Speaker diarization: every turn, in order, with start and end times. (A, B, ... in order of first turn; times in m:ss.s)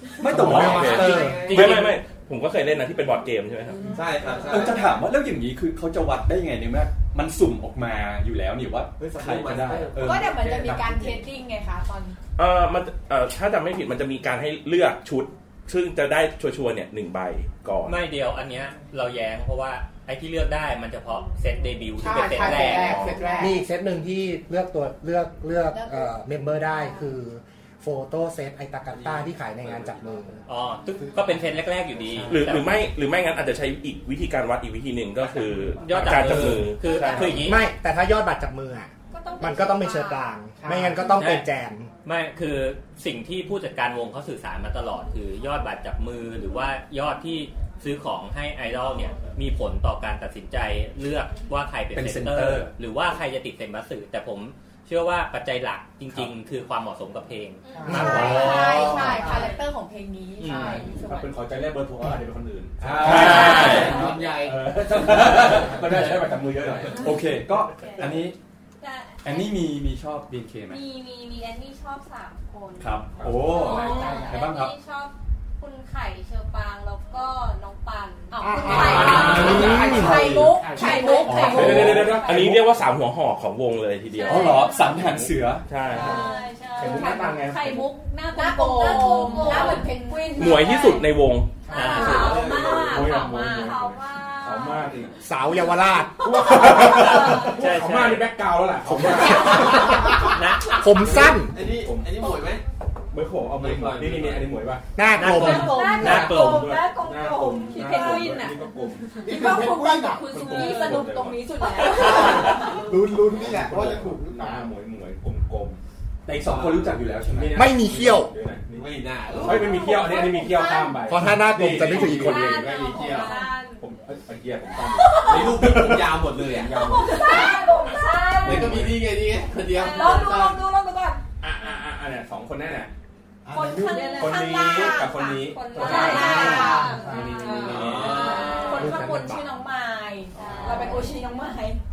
0:00.2-0:01.9 A
0:00.2-0:01.5 B
0:00.5-0:03.9 C
0:00.5-0:01.8 D
0:03.8-0:05.0 D
0:04.4-0:10.4 A
0:09.0-0:11.2 D
0:10.0-0:12.2 E
0:12.4-0:18.0 C
0:17.8-0:23.2 F
0:22.0-0:23.6 G
0:22.7-0:23.2 C
0:23.4-0:30.4 B
0:25.7-0:26.2 E
0:28.9-0:30.3 D
0:30.5-0:32.8 F
0:32.3-0:37.5 C
0:35.3-0:35.8 D
0:35.8-0:37.6 F
0:36.0-0:36.5 A
0:37.2-0:41.9 B
0:39.1-0:40.3 H
0:40.6-0:41.0 G
0:41.2-0:41.4 F
0:42.0-0:58.5 F
0:51.9-0:52.7 A
0:57.6-0:57.9 H
0:57.7-0:59.5 G
0:57.9-1:01.3 E
0:57.9-0:59.1 A
0:59.3-0:59.6 H
1:00.4-1:00.8 F
1:00.5-1:07.1 I
1:02.8-1:05.8 D
1:02.9-1:04.0 A
1:03.4-1:04.2 H
1:06.9-1:08.4 A
1:07.7-1:08.2 H
1:08.8-1:09.5 H
1:09.2-1:10.8 A
1:10.7-1:22.3 H
1:12.8-1:14.7 A
1:13.2-1:13.6 I
1:13.6-1:14.4 G
1:13.7-1:14.2 E
1:18.3-1:22.3 E
1:18.4-1:21.2 G
1:18.7-1:20.0 I
1:19.1-1:22.2 A
1:19.4-1:20.1 B
1:21.5-1:24.8 C
1:21.5-1:22.7 I
1:24.1-1:25.0 H
1:24.2-1:25.7 A
1:24.9-1:25.3 I
1:25.7-1:26.2 C
1:25.9-1:31.0 H
1:25.9-1:26.2 I
1:26.7-1:27.9 I
1:28.3-1:31.0 E
1:30.4-1:31.5 C
1:31.7-1:35.0 H
1:31.7-1:32.0 G
1:31.7-1:32.4 F
1:31.8-1:35.1 I
1:31.9-1:33.0 D
1:35.2-1:36.9 B
1:36.2-1:40.0 I
1:36.8-1:38.3 F
1:36.9-1:37.4 H
1:39.0-1:40.1 B
1:40.2-1:40.8 F
1:40.7-1:41.6 B
1:41.0-1:42.6 D
1:41.0-1:42.3 I
1:43.1-1:44.8 I
1:43.5-1:44.6 D
1:45.0-1:46.1 B
1:45.2-1:46.8 F
1:45.2-1:52.8 H
1:45.4-1:49.2 I
1:47.8-1:48.1 E
1:49.2-1:50.4 G
1:49.3-1:52.5 E
1:50.2-1:52.4 I
1:52.0-1:54.7 G
1:53.2-1:55.8 I
1:56.2-1:57.7 A
1:56.4-1:57.2 D
1:57.2-2:07.2 I
1:57.5-1:58.3 B
1:58.7-1:59.8 D
1:59.7-2:01.1 E
1:59.7-2:00.8 H
2:01.0-2:02.6 B
2:01.7-2:03.4 D
2:02.1-2:03.8 H
2:03.2-2:03.4 E
2:05.0-2:05.5 H
2:05.2-2:07.5 D
2:06.9-2:08.6 H
2:07.0-2:08.5 E
2:08.4-2:10.6 D
2:08.4-2:09.1 I
2:09.7-2:10.5 H
2:09.7-2:11.2 E
2:11.4-2:12.9 I
2:13.4-2:14.2 G
2:13.5-2:18.9 H
2:13.6-2:21.8 E
2:14.1-2:19.3 I
2:16.2-2:17.4 G
2:17.5-2:18.9 D
2:18.9-2:19.2 G
2:20.3-2:21.3 H
2:20.4-2:20.9 D